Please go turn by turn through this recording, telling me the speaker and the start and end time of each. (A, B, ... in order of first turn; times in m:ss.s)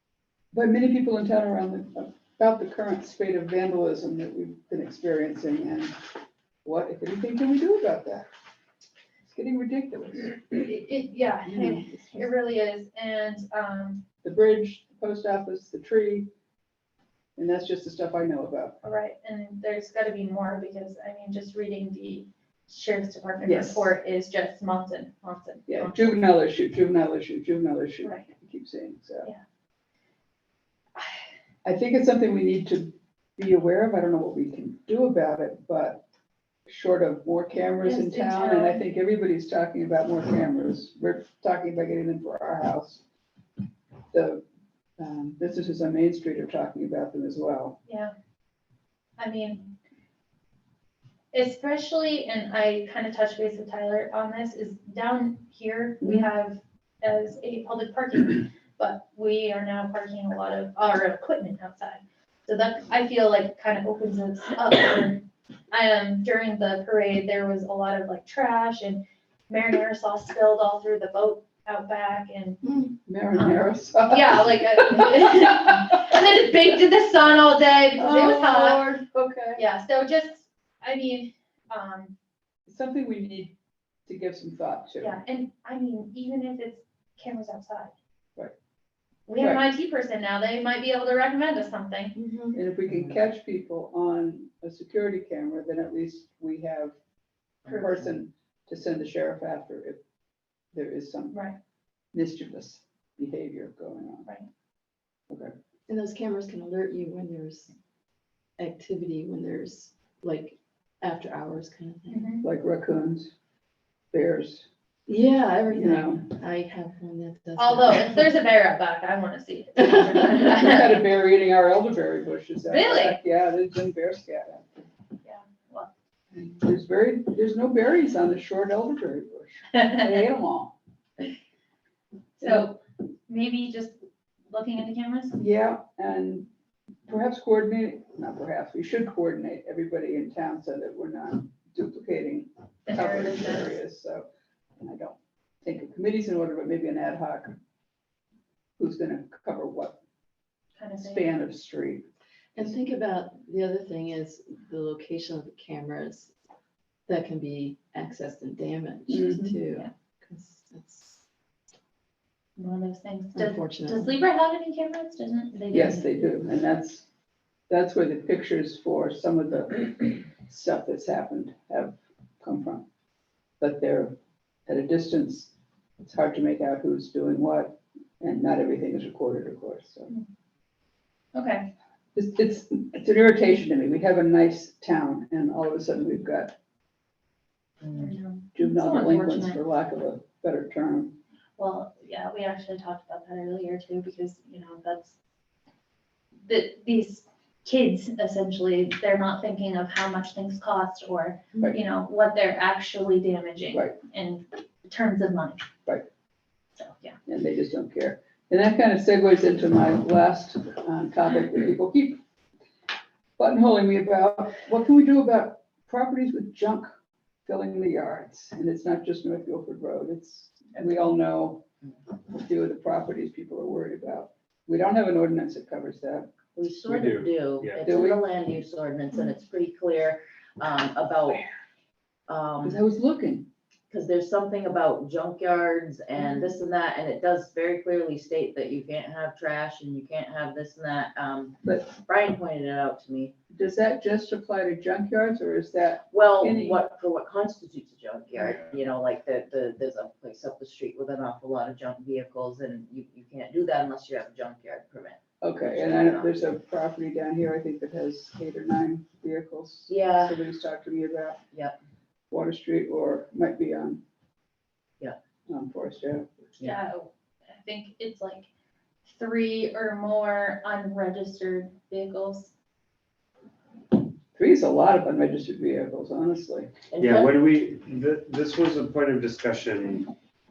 0:00.5-0:05.9 A
0:06.6-0:08.3 A
0:09.2-0:10.7 A
0:10.5-0:14.0 B
0:11.4-0:12.3 A
0:14.2-0:16.3 A
0:17.4-0:18.8 A
0:18.8-0:26.2 B
0:23.4-0:23.9 A
0:25.7-0:29.3 A
0:28.0-0:28.3 B
0:31.6-0:36.0 A
0:36.7-0:43.0 A
0:37.8-0:38.8 B
0:44.1-0:44.4 A
0:45.0-0:47.8 A
0:47.8-0:48.1 B
0:49.2-0:49.7 B
0:51.3-1:19.0 B
0:56.0-0:56.3 A
1:13.1-1:15.7 A
1:18.0-1:19.6 A
1:19.6-1:22.1 B
1:22.7-1:23.5 A
1:24.0-1:25.2 A
1:25.0-1:27.9 B
1:29.3-1:32.2 B
1:29.4-1:29.6 A
1:32.2-1:32.6 C
1:32.5-1:37.0 A
1:37.7-1:40.0 A
1:40.7-1:41.4 A
1:41.3-1:41.6 B
1:42.1-1:44.3 A
1:45.9-1:47.7 C
1:48.6-1:52.3 C
1:52.1-1:52.4 B
1:52.4-1:53.3 A
1:54.1-1:54.7 A
1:55.1-1:58.3 C
1:55.7-1:56.3 A
1:57.6-2:01.0 B
2:00.2-2:04.7 A
2:02.7-2:03.2 B
2:05.2-2:05.9 B
2:06.3-2:10.7 A
2:12.4-2:14.0 B
2:12.4-2:12.7 A
2:14.5-2:15.4 B
2:15.4-2:16.5 A
2:17.1-2:24.2 A
2:22.9-2:23.8 B
2:24.8-2:27.6 A
2:28.8-2:30.0 A
2:30.8-2:31.3 B
2:31.0-2:32.0 A
2:32.5-2:36.3 C
2:37.1-2:41.2 C
2:39.1-2:39.6 A
2:42.6-2:46.3 B
2:43.3-2:44.1 C
2:45.7-2:47.0 A
2:47.7-2:52.8 A
2:53.6-3:00.1 A
3:01.3-3:01.7 B
3:02.1-3:06.6 A
3:07.8-3:08.1 D
3:07.9-3:09.6 B
3:08.5-3:11.2 A
3:11.6-3:15.1 B
3:16.4-3:25.6 B
3:23.7-3:24.0 A
3:26.8-3:27.2 B
3:27.3-3:32.2 A
3:33.4-3:36.9 A
3:37.4-3:41.6 A
3:42.3-3:46.3 A
3:46.5-3:51.4 D
3:46.8-3:47.8 E
3:47.8-3:48.2 A
3:52.3-3:52.8 D
3:52.6-3:53.4 A
3:53.9-4:03.3 D
4:01.6-4:02.0 A
4:03.5-4:06.8 A
4:06.1-4:16.3 D
4:15.4-4:21.4 A
4:19.9-4:20.4 D
4:22.3-4:24.0 A
4:25.5-4:26.4 A
4:26.6-4:28.5 B
4:29.0-4:32.5 B
4:34.3-4:36.7 A
4:36.9-4:37.3 D
4:37.0-4:40.1 E